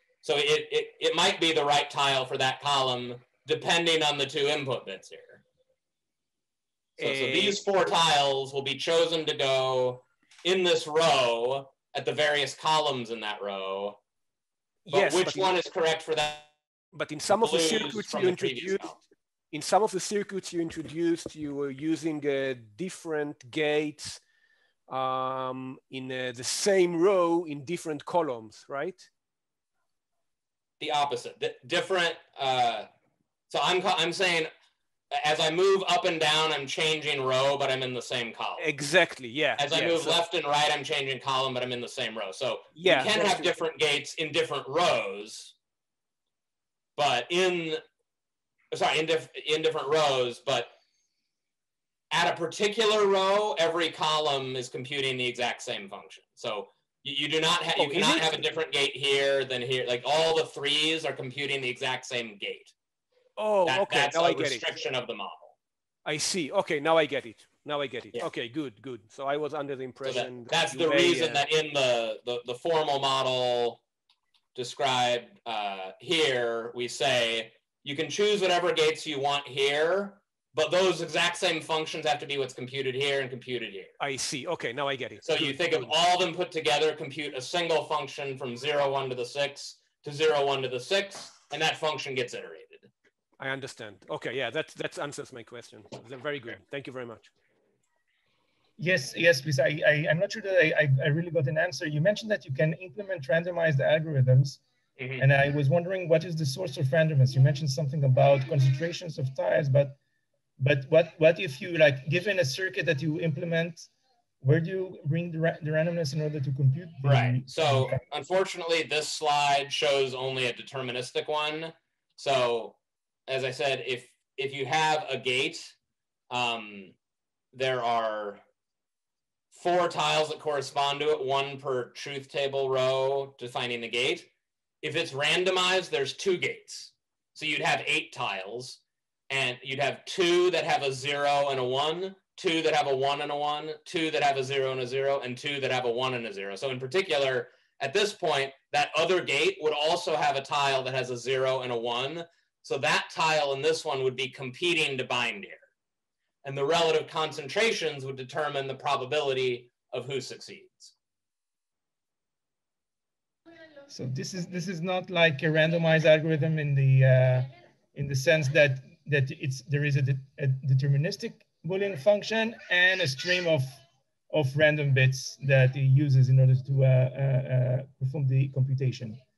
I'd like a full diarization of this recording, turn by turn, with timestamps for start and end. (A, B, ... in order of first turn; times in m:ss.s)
0:00.2-0:05.4 A
0:07.0-0:07.6 B
0:07.0-0:14.0 A
0:14.8-0:15.5 B
0:14.9-0:16.5 A
0:16.9-0:18.9 B
0:17.4-0:19.0 A
0:19.5-0:24.2 B
0:24.9-0:29.1 B
0:30.8-0:32.9 A
0:33.5-0:34.5 A
0:35.1-0:38.7 A
0:38.6-0:40.2 B
0:39.6-0:45.5 A
0:42.8-0:43.6 B
0:47.0-0:47.8 A
0:48.7-0:50.7 A
0:52.1-1:02.7 A
0:57.8-0:58.5 B
1:03.4-1:04.6 B
1:03.6-1:05.5 A
1:06.0-1:11.4 B
1:10.0-1:13.8 A
1:14.5-1:24.0 A
1:24.0-1:25.9 B
1:25.2-1:32.9 A
1:33.4-1:37.3 B
1:38.8-1:44.6 C
1:45.0-1:45.2 A
1:45.2-1:50.0 C
1:50.6-1:53.9 C
1:54.4-1:58.0 C
1:57.0-2:05.7 A
2:06.3-2:06.9 A
2:07.5-2:08.4 A
2:09.5-2:14.3 A
2:14.8-2:35.7 A
2:36.4-2:40.9 A
2:43.9-2:53.8 C
2:54.3-2:59.2 C